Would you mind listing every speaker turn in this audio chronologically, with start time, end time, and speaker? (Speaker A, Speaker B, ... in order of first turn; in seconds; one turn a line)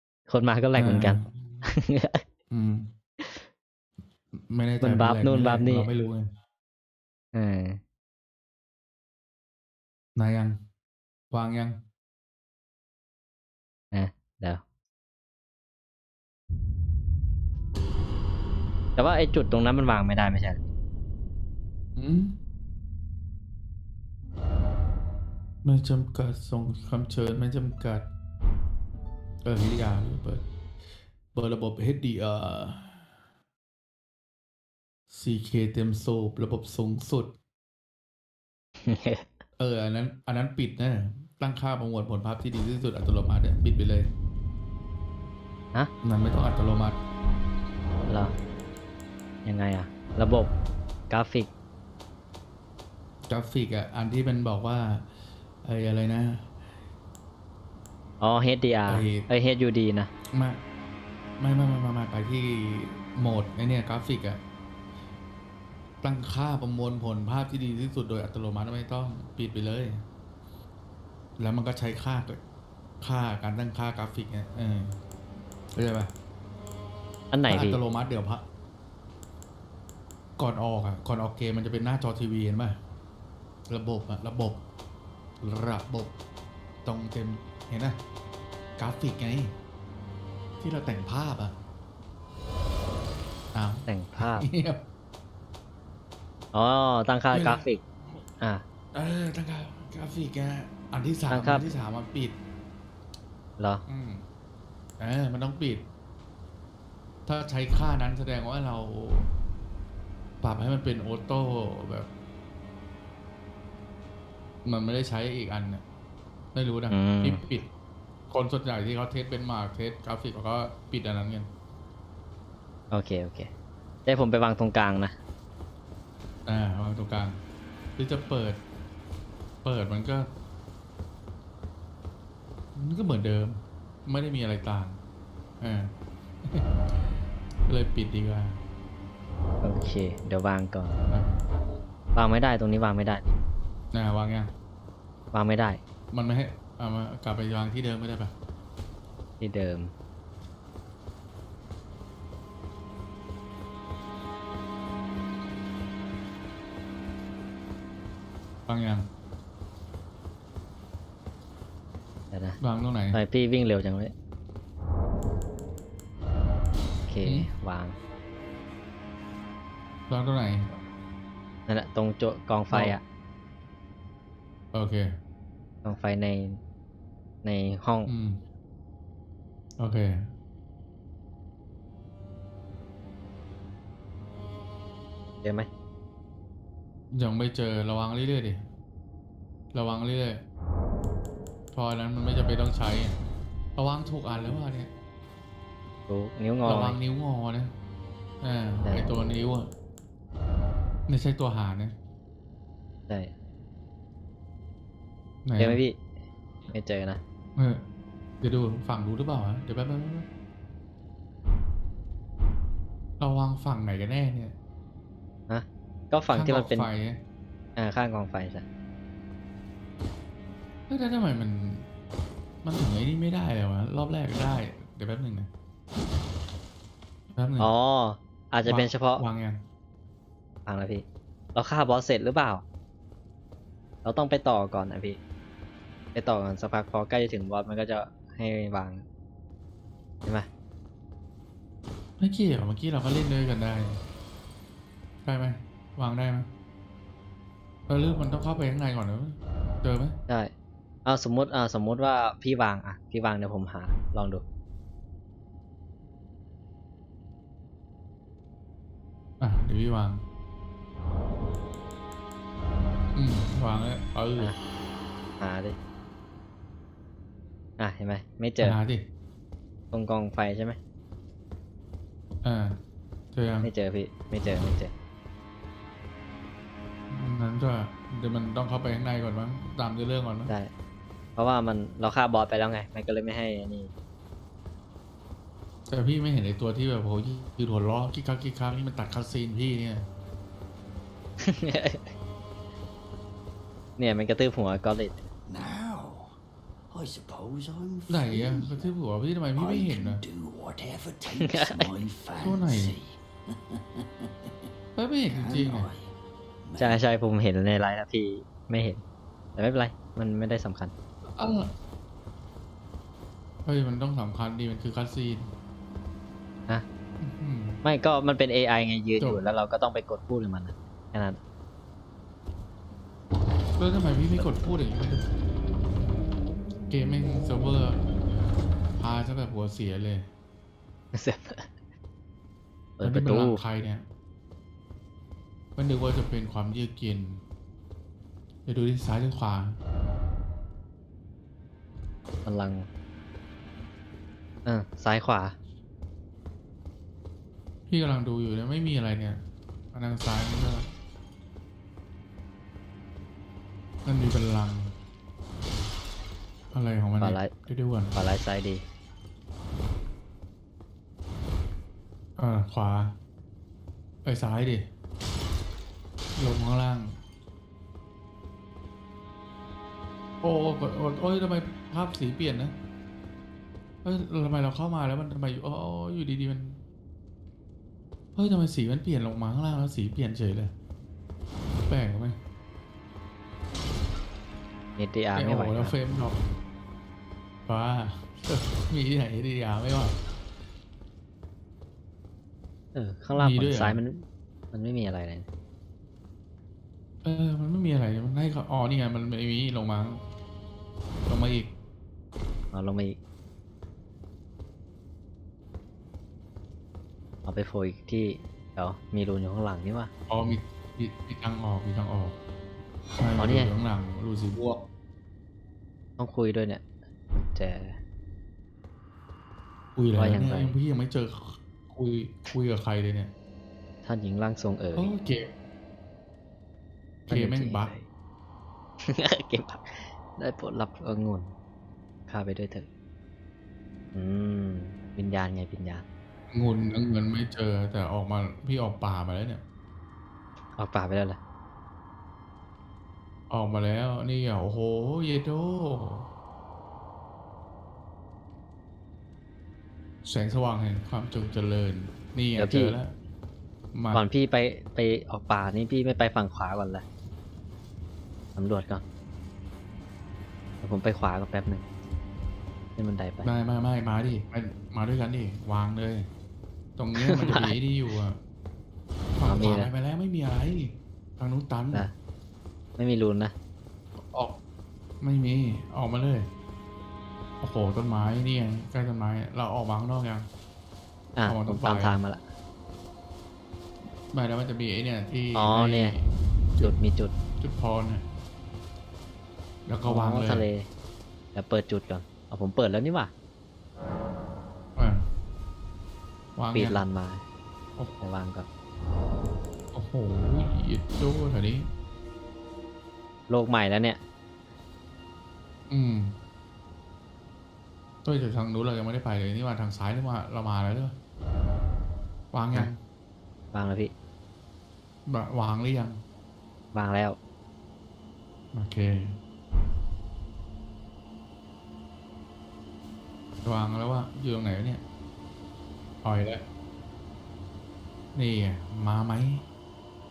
Speaker A: 0.3-2.2
Speaker B: 0.8-1.7
Speaker B: 2.5-2.9
Speaker B: 4.5-6.3
Speaker A: 4.8-5.9
Speaker A: 7.3-7.8
Speaker B: 10.2-10.6
Speaker B: 11.3-11.8
Speaker A: 13.9-14.6
Speaker A: 19.0-20.6
Speaker B: 21.9-22.3
Speaker B: 25.6-28.1
Speaker B: 29.4-30.4
Speaker B: 31.3-33.1
Speaker B: 35.1-37.3
Speaker A: 38.8-39.4
Speaker B: 39.6-44.1
Speaker B: 46.0-47.0
Speaker A: 48.1-48.3
Speaker A: 49.4-50.5
Speaker A: 51.1-51.5
Speaker B: 53.3-55.1
Speaker B: 55.6-56.8
Speaker A: 58.2-60.1
Speaker B: 58.9-59.3
Speaker B: 60.3-60.6
Speaker B: 61.4-64.4
Speaker B: 66.0-70.0
Speaker B: 71.4-72.4
Speaker B: 73.0-75.0
Speaker B: 75.7-76.1
Speaker A: 77.3-77.8
Speaker B: 77.5-78.4
Speaker B: 80.4-82.8
Speaker B: 83.7-84.6
Speaker B: 85.4-86.2
Speaker B: 86.8-88.0
Speaker B: 88.8-89.5
Speaker B: 90.6-91.5
Speaker B: 93.5-94.8
Speaker A: 93.9-94.5
Speaker A: 96.5-97.8
Speaker B: 97.3-97.6
Speaker B: 98.9-102.4
Speaker A: 101.3-101.7
Speaker A: 103.6-103.8
Speaker B: 103.8-104.2
Speaker B: 105.0-105.8
Speaker B: 107.2-109.3
Speaker B: 110.4-112.1
Speaker B: 114.6-115.8
Speaker B: 116.5-117.7
Speaker A: 116.9-117.4
Speaker B: 118.3-121.5
Speaker A: 122.9-123.5
Speaker A: 124.0-125.1
Speaker B: 126.5-127.4
Speaker B: 128.0-128.6
Speaker B: 129.6-130.3
Speaker B: 132.7-135.0
Speaker B: 135.6-137.1
Speaker B: 137.7-138.6
Speaker A: 139.6-141.0
Speaker B: 141.1-141.4
Speaker A: 142.1-143.3
Speaker B: 143.9-144.5
Speaker A: 145.3-145.8
Speaker B: 146.1-148.3
Speaker A: 149.4-149.9
Speaker B: 158.7-159.1
Speaker A: 162.3-162.6
Speaker B: 162.6-163.2
Speaker A: 163.1-164.1
Speaker A: 167.1-168.0
Speaker B: 167.2-167.5
Speaker B: 170.1-170.7
Speaker A: 171.7-173.0
Speaker B: 172.7-173.0
Speaker B: 174.7-175.2
Speaker A: 175.8-176.6
Speaker A: 177.4-178.1
Speaker B: 178.1-178.4
Speaker B: 179.8-180.2
Speaker A: 185.4-185.7
Speaker B: 187.1-188.6
Speaker B: 189.7-190.4
Speaker B: 191.7-193.2
Speaker B: 193.8-194.9
Speaker A: 196.1-197.0
Speaker B: 196.6-197.7
Speaker B: 198.4-199.7
Speaker B: 201.1-201.9
Speaker B: 205.4-205.8
Speaker A: 205.6-206.0
Speaker A: 206.7-207.2
Speaker B: 207.6-207.8
Speaker B: 208.4-210.3
Speaker B: 213.2-214.5
Speaker A: 215.5-216.9
Speaker B: 216.3-217.2
Speaker A: 217.8-218.6
Speaker B: 220.9-221.9
Speaker B: 222.6-225.5
Speaker B: 227.3-227.7
Speaker A: 227.6-229.2
Speaker B: 228.6-229.6
Speaker A: 230.7-232.6
Speaker A: 234.0-235.2
Speaker A: 236.1-239.0
Speaker B: 242.2-244.0
Speaker B: 245.2-246.5
Speaker B: 247.9-250.2
Speaker A: 251.1-254.4
Speaker B: 259.4-260.2
Speaker B: 263.1-264.5
Speaker A: 265.4-265.8
Speaker A: 267.8-268.8
Speaker B: 268.6-269.0
Speaker A: 269.9-270.8
Speaker B: 272.4-272.8
Speaker B: 273.3-273.7
Speaker A: 273.6-274.9
Speaker B: 277.1-280.5
Speaker A: 281.4-283.9
Speaker B: 285.9-290.1
Speaker A: 291.4-292.1
Speaker A: 294.0-295.2
Speaker C: 295.5-296.4
Speaker C: 296.9-298.9
Speaker B: 298.1-300.2
Speaker C: 299.6-304.5
Speaker A: 301.4-301.8
Speaker B: 302.4-302.9
Speaker B: 304.9-305.9
Speaker C: 305.3-306.1
Speaker C: 306.6-307.0
Speaker A: 306.8-309.0
Speaker A: 309.6-310.9
Speaker B: 311.3-311.7
Speaker B: 313.6-315.5
Speaker B: 317.2-317.8
Speaker A: 317.8-321.4
Speaker B: 323.8-325.3
Speaker B: 326.9-328.0
Speaker B: 328.9-330.3
Speaker A: 331.1-331.7
Speaker A: 333.0-333.6
Speaker B: 333.0-334.0
Speaker B: 335.8-337.4
Speaker B: 338.6-339.8
Speaker A: 342.4-342.9
Speaker A: 344.6-345.6
Speaker B: 347.9-349.4
Speaker B: 349.9-350.9
Speaker B: 354.0-354.9
Speaker B: 356.7-358.1
Speaker A: 357.2-357.5
Speaker A: 358.1-358.8
Speaker B: 362.4-363.2
Speaker B: 364.2-364.8
Speaker B: 366.4-367.1
Speaker B: 370.4-372.7
Speaker B: 374.0-376.8
Speaker B: 378.3-380.7
Speaker B: 381.9-382.4
Speaker A: 385.0-385.9
Speaker B: 385.3-386.4
Speaker B: 387.6-390.1
Speaker A: 392.9-395.5
Speaker B: 393.4-394.0
Speaker B: 397.2-400.2
Speaker B: 401.3-401.7
Speaker A: 402.7-403.2
Speaker A: 407.4-410.1
Speaker B: 410.3-412.4
Speaker B: 413.2-414.9
Speaker A: 413.4-413.7
Speaker A: 416.2-418.0
Speaker B: 419.9-423.3
Speaker A: 420.1-420.8
Speaker A: 424.0-425.1
Speaker B: 424.9-425.4
Speaker B: 427.3-427.9
Speaker A: 427.3-428.1
Speaker A: 429.0-431.5
Speaker A: 432.3-432.9
Speaker A: 434.1-436.0
Speaker B: 436.5-439.6
Speaker A: 440.8-441.4
Speaker B: 443.5-446.3
Speaker B: 450.2-453.1
Speaker A: 452.6-453.0
Speaker B: 453.9-454.2
Speaker A: 454.1-457.0
Speaker A: 458.6-459.0
Speaker A: 460.8-461.9
Speaker A: 463.0-463.5
Speaker B: 463.4-466.3
Speaker B: 467.0-468.4
Speaker A: 467.1-467.8
Speaker B: 469.4-472.1
Speaker A: 469.4-469.9
Speaker A: 473.0-473.5
Speaker B: 474.2-474.6
Speaker B: 475.2-476.5
Speaker B: 477.6-480.5
Speaker A: 481.4-482.4
Speaker B: 481.4-482.2
Speaker B: 484.3-486.9
Speaker A: 485.5-486.2
Speaker A: 486.8-487.3
Speaker B: 487.6-488.2
Speaker B: 489.9-490.7
Speaker A: 490.0-490.9
Speaker A: 491.5-493.3
Speaker B: 494.9-495.2
Speaker B: 496.6-497.0
Speaker A: 496.7-497.4
Speaker A: 498.2-498.7
Speaker B: 499.9-501.9
Speaker A: 503.5-504.2
Speaker B: 505.9-506.4
Speaker B: 508.2-511.1
Speaker B: 512.5-513.0
Speaker A: 513.7-514.1
Speaker B: 515.2-516.2
Speaker A: 516.9-517.4
Speaker B: 518.7-519.4
Speaker B: 523.6-525.0
Speaker B: 526.2-526.6
Speaker B: 528.3-529.6